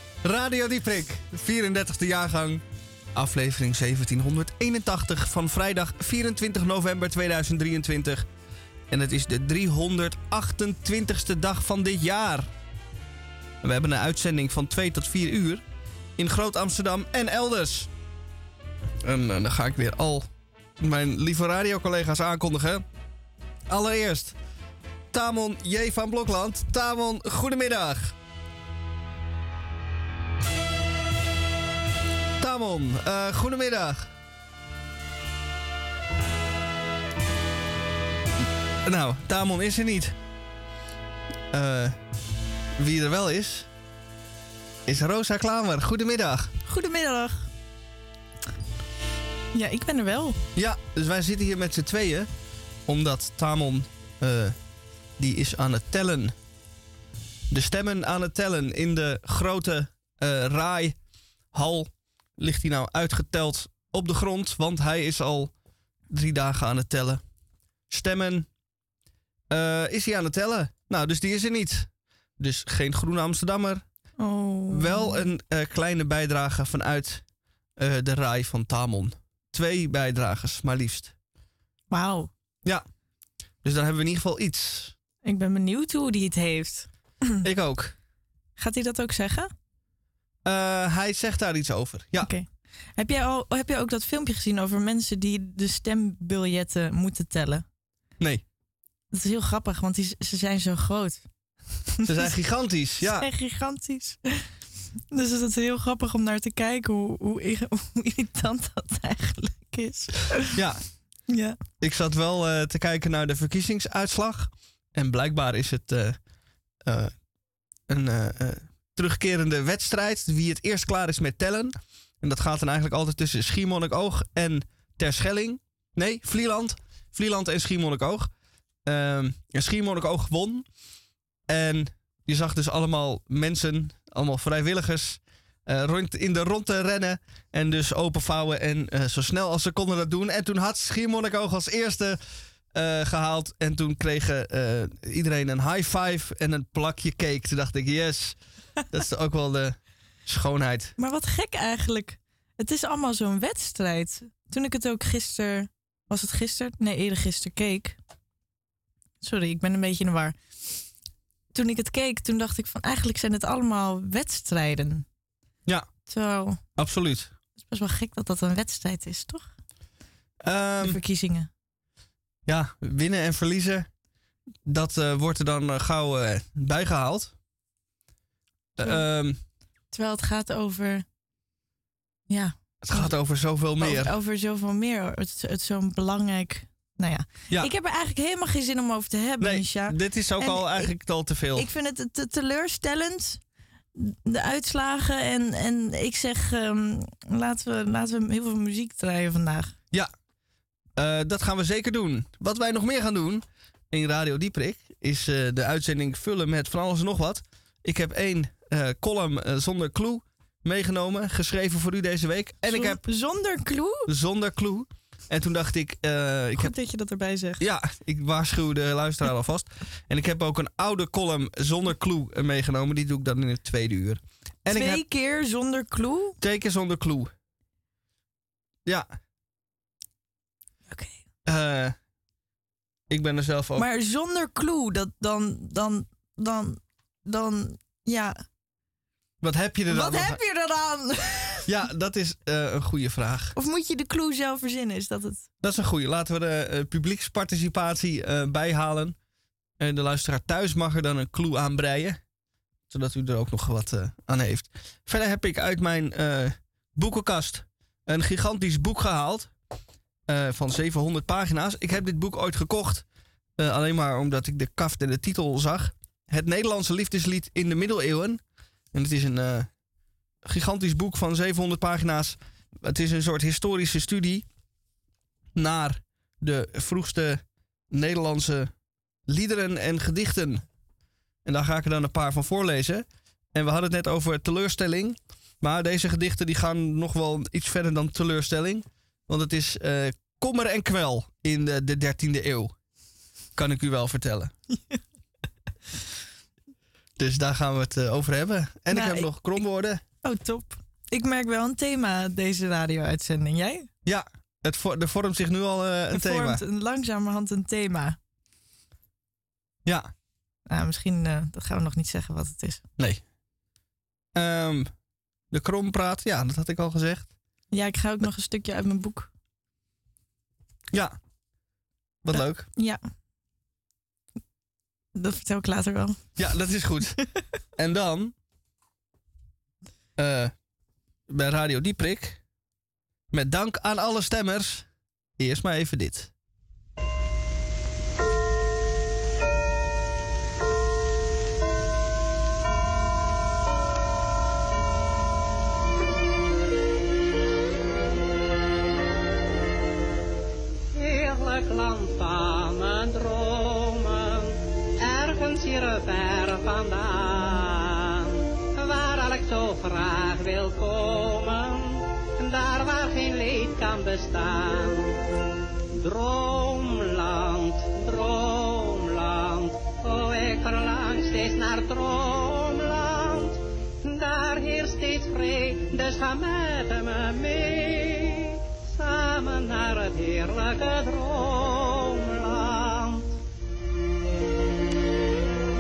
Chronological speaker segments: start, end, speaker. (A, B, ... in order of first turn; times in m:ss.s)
0:00.2-0:02.6 A
0:03.2-0:08.2 A
0:08.9-0:12.5 A
0:13.6-0:15.6 A
0:16.2-0:17.9 A
0:19.0-0:22.8 A
0:23.7-0:24.4 A
0:25.1-0:28.2 A
0:32.4-0:34.1 A
0:38.8-0:40.2 A
0:41.5-0:42.0 A
0:42.8-0:43.7 A
0:44.9-0:46.5 A
0:46.7-0:47.5 B
0:49.5-0:50.4 B
0:50.6-0:52.3 A
0:52.8-0:54.6 A
0:55.2-0:56.3 A
0:57.5-1:01.0 A
1:01.5-1:05.5 A
1:06.1-1:07.2 A
1:07.9-1:08.5 A
1:09.5-1:13.8 A
1:14.2-1:15.2 B
1:14.7-1:17.2 A
1:17.8-1:21.2 A
1:21.9-1:22.3 B
1:23.6-1:24.9 A
1:25.2-1:27.4 B
1:27.4-1:27.9 A
1:28.6-1:29.5 B
1:30.4-1:32.3 A
1:32.2-1:37.6 B
1:39.1-1:41.2 B
1:42.1-1:43.3 A
1:43.0-1:44.4 B
1:45.1-1:50.5 B
1:50.6-1:50.8 A
1:51.3-1:51.6 B
1:51.8-1:56.2 A
1:56.8-1:57.2 A
1:57.9-2:08.3 A
2:08.8-2:10.7 A
2:11.5-2:22.2 A
2:22.7-2:28.4 A
2:28.9-2:30.9 A
2:31.0-2:38.0 B
2:39.2-2:40.4 B
2:41.5-2:45.1 B
2:46.1-2:46.6 B
2:46.8-2:47.3 A
2:47.6-2:49.5 B
2:50.4-2:51.0 A
2:50.8-2:51.5 B
2:52.5-2:53.9 A
2:54.6-2:57.4 A
2:58.8-2:59.4 A
2:59.9-3:01.0 B
3:02.3-3:03.1 B
3:02.8-3:04.1 A
3:03.8-3:10.9 B
3:09.4-3:11.7 A
3:11.5-3:13.4 B
3:14.0-3:19.7 B
3:21.0-3:33.0 A
3:32.7-3:34.1 B
3:34.1-3:36.7 A
3:36.6-3:37.6 B
3:37.6-3:45.0 A
3:44.7-3:46.4 B
3:46.4-3:47.3 A
3:50.9-3:51.2 B
3:51.4-3:52.0 A
3:53.1-3:53.9 A
3:53.8-3:58.4 B
3:59.4-4:00.4 A
3:59.9-4:01.7 B
4:01.7-4:03.5 A
4:03.6-4:05.5 B
4:05.6-4:09.2 A
4:09.8-4:12.2 A
4:12.9-4:19.5 A
4:20.3-4:23.1 A
4:23.6-4:28.4 A
4:28.9-4:29.7 A
4:30.4-4:34.4 A
4:35.5-4:38.7 A
4:39.2-4:40.6 A
4:41.4-4:52.8 A
4:53.5-4:54.5 A
4:57.2-5:00.0 A
4:58.9-4:59.3 B
5:00.2-5:03.9 B
5:04.0-5:06.6 A
5:06.1-5:08.2 B
5:09.8-5:10.1 A
5:10.7-5:12.8 B
5:14.3-5:14.9 A
5:15.5-5:17.3 A
5:17.7-5:19.3 B
5:22.2-5:22.7 A
5:25.1-5:26.3 B
5:26.4-5:27.2 A
5:27.8-5:28.3 A
5:30.2-5:30.5 A
5:31.3-5:32.4 A
5:33.3-5:36.3 A
5:50.9-6:05.1 C
6:05.9-6:23.4 C